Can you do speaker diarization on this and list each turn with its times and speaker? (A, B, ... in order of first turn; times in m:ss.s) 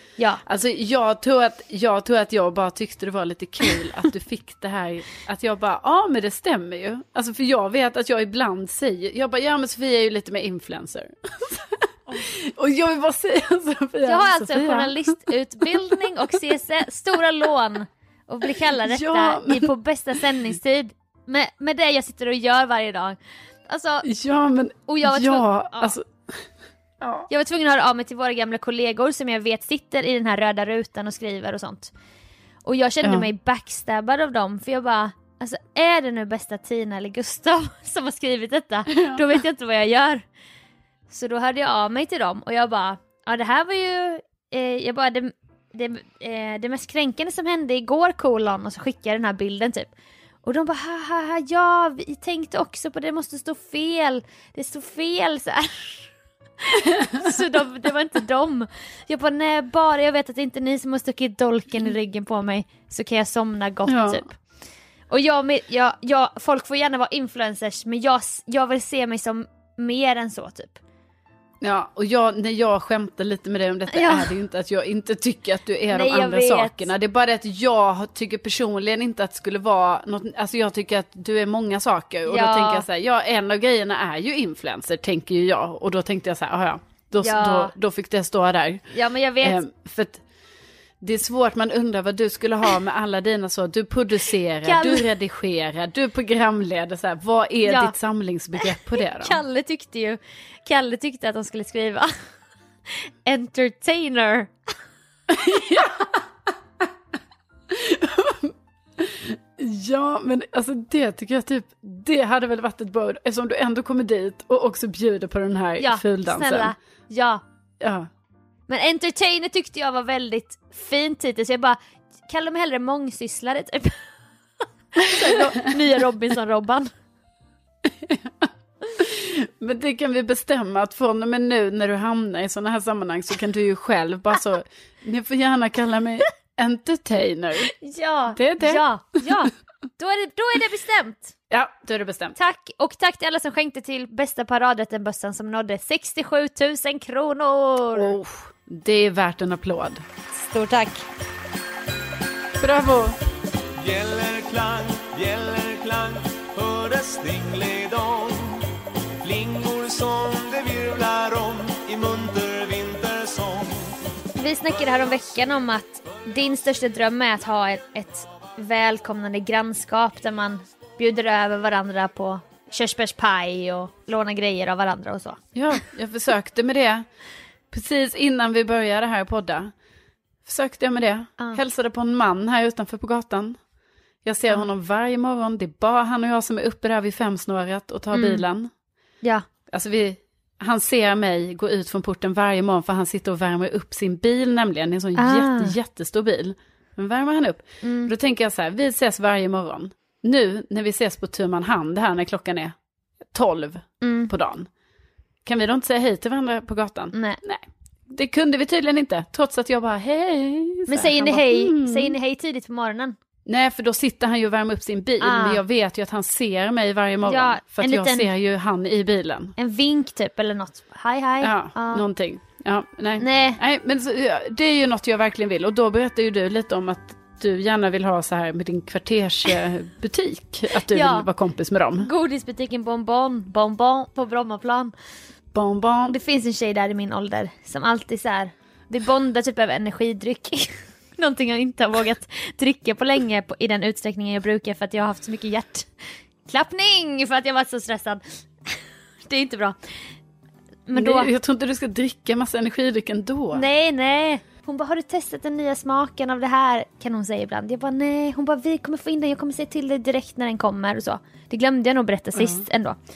0:00.4-0:15.0 A
0:14.0-0:24.1 B
0:15.6-0:16.0 A
0:18.7-0:19.7 A
0:24.0-0:26.4 A
0:24.9-0:26.0 B
0:27.0-0:27.3 A
0:27.3-0:31.9 B
0:32.6-0:40.2 B
0:33.0-0:33.3 A
0:38.9-0:39.2 A
0:41.1-0:49.9 B
0:50.4-1:04.3 B
1:03.8-1:04.2 A
1:05.1-1:10.8 B
1:11.6-1:28.8 A
1:13.9-1:14.3 B
1:15.9-1:16.9 B
1:22.2-1:22.8 B
1:27.2-1:27.7 B
1:28.9-1:29.6 B
1:29.4-1:30.2 A
1:31.0-1:39.4 A
1:34.6-1:35.1 B
1:37.6-1:37.9 B
1:39.1-1:42.1 B
1:43.2-1:44.5 B
1:45.3-1:46.2 A
1:47.7-1:56.7 A
1:55.8-1:57.4 B
1:57.8-1:58.1 A
1:58.7-2:04.0 B
2:05.0-2:06.9 B
2:05.2-2:05.7 A
2:07.8-2:17.7 A
2:17.7-2:21.3 B
2:18.3-2:19.3 A
2:21.5-2:22.4 A
2:22.4-2:28.2 B
2:27.9-2:30.0 A
2:30.4-2:31.0 B
2:32.6-2:33.2 A
2:33.8-2:38.6 C
2:39.2-2:43.9 C
2:44.4-2:55.4 B
2:55.5-2:57.0 A
2:57.7-2:59.7 A
3:00.4-3:03.6 A
3:04.2-3:08.7 A
3:08.1-3:08.4 B
3:09.7-3:22.7 A
3:15.1-3:15.8 B
3:17.8-3:18.1 B
3:23.3-3:24.7 A
3:24.0-3:24.3 B
3:25.4-3:32.1 A
3:27.1-3:27.4 B
3:30.9-3:33.1 B
3:33.4-3:39.5 A
3:35.2-3:35.6 B
3:37.2-3:38.3 B
3:39.6-3:42.0 B
3:41.4-3:52.1 A
3:43.2-3:43.6 B
3:50.9-3:51.3 B
3:52.0-3:54.9 B
3:55.5-3:56.2 A
3:56.1-4:05.9 B
4:06.4-4:09.8 B
4:10.9-4:11.3 B
4:10.9-4:13.6 A
4:13.5-4:23.0 B
4:22.3-4:22.6 A